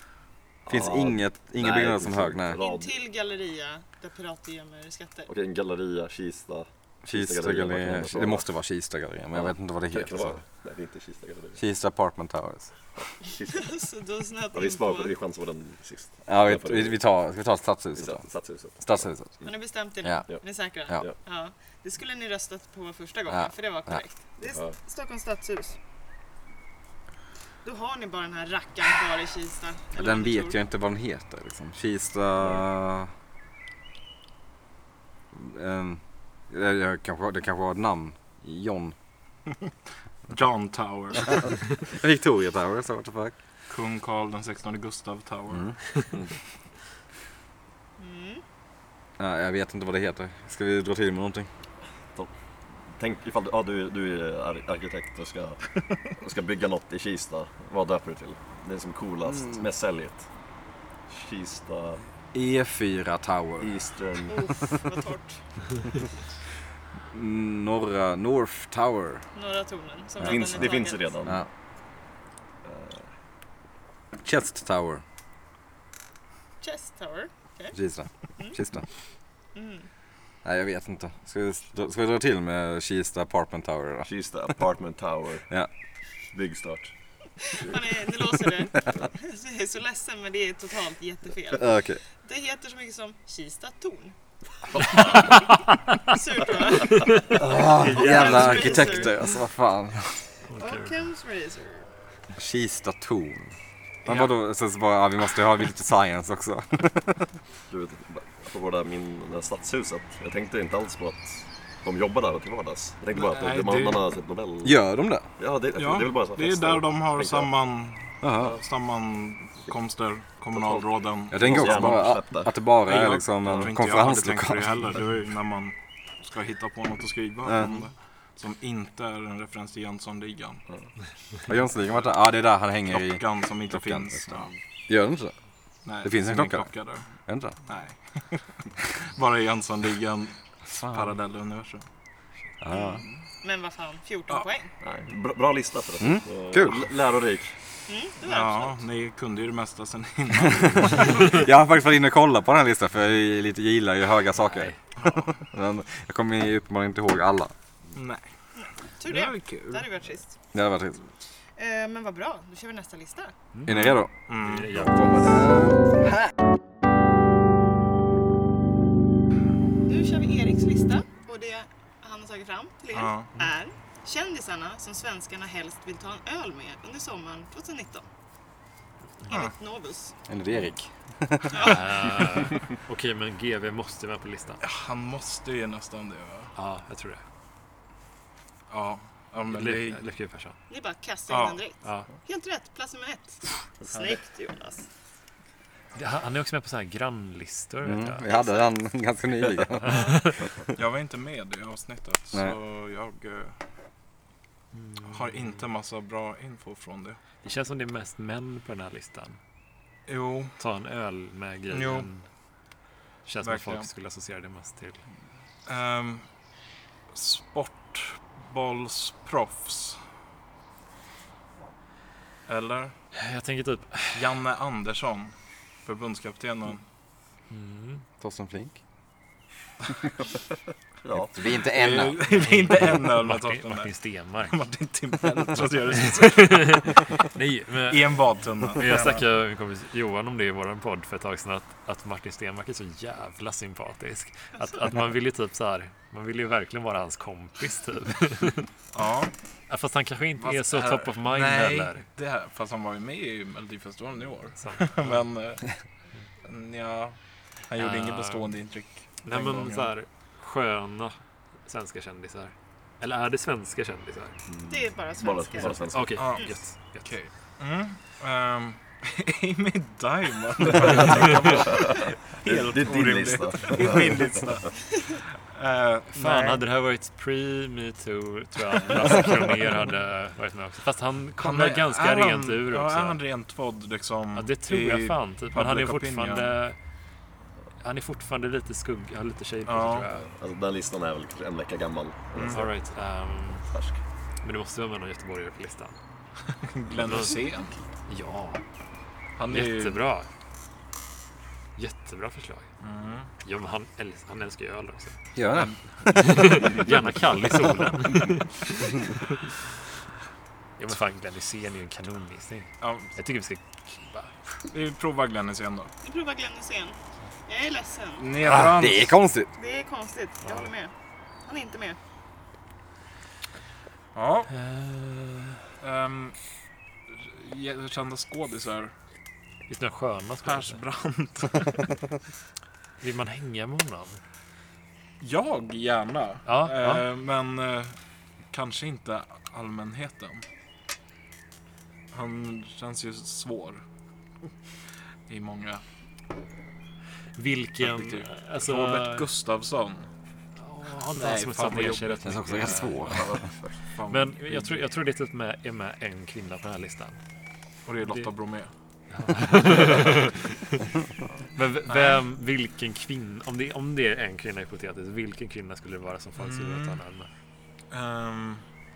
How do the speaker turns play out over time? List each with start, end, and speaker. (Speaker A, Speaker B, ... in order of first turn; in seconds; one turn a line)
Speaker A: 0.7-3.0
Speaker B: 0.7-2.6
Speaker C: 2.6-5.3
Speaker A: 5.3-8.5
Speaker B: 7.0-10.4
Speaker A: 9.3-11.6
Speaker B: 11.6-12.7
Speaker A: 12.9-13.8
Speaker C: 13.5-15.1
Speaker A: 14.5-17.0
Speaker B: 16.3-18.2
Speaker A: 18.0-19.5
Speaker B: 18.8-19.3
Speaker C: 19.4-25.8
Speaker B: 23.3-24.0
Speaker A: 24.4-24.8
Speaker C: 27.6-30.6
Speaker B: 29.9-33.1
Speaker A: 32.4-32.6
Speaker B: 35.3-38.9
Speaker D: 40.3-41.5
Speaker B: 41.9-43.3
Speaker D: 43.7-45.7
Speaker C: 48.0-48.4
Speaker B: 49.2-51.5
Speaker A: 52.9-60.2
Speaker A: 61.1-62.0
Speaker B: 62.3-63.7
Speaker A: 63.6-64.5
Speaker C: 64.3-65.4
Speaker B: 67.1-69.2
Speaker C: 69.3-71.2
Speaker A: 70.2-71.5
Speaker A: 72.6-73.1
Speaker B: 74.2-75.0
Speaker C: 76.6-77.8
Speaker B: 77.7-78.8
Speaker C: 79.5-79.9
Speaker B: 80.4-84.1
Speaker A: 84.0-85.5
Speaker A: 86.3-86.9
Speaker C: 87.4-91.7
Speaker B: 91.5-92.0
Speaker C: 92.2-94.1
Speaker C: 94.7-99.3
Speaker B: 97.3-100.2
Speaker E: 100.5-100.9
Speaker C: 100.5-101.9
Speaker B: 102.4-103.5
Speaker B: 104.0-107.3
Speaker A: 107.7-114.8
Speaker D: 113.1-114.1
Speaker B: 114.6-115.3
Speaker A: 115.4-117.5
Speaker D: 115.7-122.0
Speaker B: 118.2-118.5
Speaker A: 120.5-120.8
Speaker B: 121.3-124.8
Speaker A: 121.4-122.5
Speaker D: 122.9-130.6
Speaker A: 123.5-123.7
Speaker B: 127.4-127.7
Speaker B: 131.5-134.2
Speaker D: 132.9-134.5
Speaker B: 134.9-135.3
Speaker D: 135.8-137.1
Speaker B: 136.0-136.7
Speaker B: 137.3-137.6
Speaker D: 137.7-141.8
Speaker B: 140.7-141.1
Speaker B: 142.6-143.0
Speaker C: 142.7-144.7
Speaker A: 144.8-147.6
Speaker B: 146.0-146.9
Speaker C: 147.9-148.8
Speaker D: 148.2-151.4
Speaker B: 150.5-157.5
Speaker E: 154.5-154.8
Speaker D: 155.0-155.3
Speaker D: 157.9-158.2
Speaker C: 158.6-160.3
Speaker D: 159.0-160.0
Speaker B: 160.5-161.0
Speaker C: 161.6-163.3
Speaker B: 163.7-164.1
Speaker D: 163.7-164.7
Speaker E: 164.3-165.1
Speaker B: 164.7-166.3
Speaker C: 169.9-178.1
Speaker D: 172.9-173.4
Speaker C: 179.3-180.1
Speaker B: 180.3-181.8
Speaker C: 181.5-181.8
Speaker E: 181.6-184.6
Speaker D: 184.6-186.5
Speaker E: 186.6-187.2
Speaker D: 188.7-190.0
Speaker E: 189.5-190.6
Speaker C: 190.7-194.9
Speaker D: 191.3-191.6
Speaker E: 191.8-192.1
Speaker E: 195.9-198.2
Speaker B: 197.8-200.2
Speaker C: 198.2-198.7
Speaker E: 199.8-200.4
Speaker D: 200.7-203.6
Speaker E: 204.7-205.6
Speaker D: 205.1-207.2
Speaker E: 207.4-209.4
Speaker D: 210.1-210.6
Speaker E: 210.6-212.2
Speaker D: 211.7-212.1
Speaker E: 213.2-215.0
Speaker D: 213.4-213.9
Speaker D: 215.7-216.2
Speaker D: 217.1-220.0
Speaker D: 222.5-222.9
Speaker E: 223.1-224.2
Speaker D: 224.1-226.8
Speaker E: 227.5-228.1
Speaker B: 228.2-228.8
Speaker A: 231.0-231.4
Speaker B: 231.3-232.2
Speaker D: 231.6-237.1
Speaker E: 232.3-234.6
Speaker E: 235.9-238.2
Speaker D: 237.9-239.2
Speaker E: 238.7-248.7
Speaker D: 248.9-249.3
Speaker E: 249.7-252.1
Speaker D: 250.4-255.7
Speaker E: 254.6-255.2
Speaker D: 256.4-257.2
Speaker D: 257.7-259.9
Speaker E: 257.8-258.5
Speaker E: 259.2-264.4
Speaker A: 264.5-266.3
Speaker C: 264.7-266.5
Speaker E: 265.9-267.1
Speaker D: 266.2-276.6
Speaker A: 271.8-274.3
Speaker E: 276.1-283.2
Speaker D: 281.4-286.6
Speaker E: 284.3-286.8
Speaker E: 287.8-290.2
Speaker D: 289.7-290.1
Speaker A: 290.2-292.7
Speaker D: 292.3-292.7
Speaker E: 292.5-293.6
Speaker A: 293.7-294.0
Speaker E: 294.4-295.9
Speaker D: 296.6-297.8
Speaker E: 298.1-298.6
Speaker D: 299.4-300.0
Speaker E: 299.5-300.3
Speaker E: 301.8-302.7
Speaker D: 302.8-303.3
Speaker E: 303.4-305.2
Speaker B: 305.3-306.7
Speaker D: 305.5-305.8
Speaker E: 306.1-309.3
Speaker D: 306.4-306.8
Speaker E: 310.8-314.6
Speaker D: 312.8-313.1
Speaker D: 314.7-315.9
Speaker C: 316.0-318.2
Speaker D: 318.2-319.2
Speaker B: 318.4-319.5
Speaker C: 319.6-320.9
Speaker E: 320.4-320.7
Speaker C: 321.4-322.0
Speaker D: 324.1-324.5
Speaker E: 324.5-325.6
Speaker D: 325.8-326.4
Speaker D: 327.1-328.9
Speaker E: 329.7-330.8
Speaker D: 330.4-331.9
Speaker E: 333.0-334.2
Speaker D: 335.2-337.9
Speaker E: 336.4-337.0
Speaker D: 338.5-340.4
Speaker D: 342.1-343.8
Speaker D: 345.3-345.8
Speaker E: 347.4-349.3
Speaker D: 347.8-350.1
Speaker E: 350.6-353.3
Speaker D: 351.1-352.2
Speaker B: 352.2-353.4
Speaker A: 353.1-353.7
Speaker D: 353.9-354.8
Speaker E: 354.1-357.2
Speaker D: 357.9-358.7
Speaker E: 359.1-360.9
Speaker E: 361.5-367.3
Speaker D: 361.9-362.2
Speaker D: 366.4-367.0
Speaker D: 367.9-368.6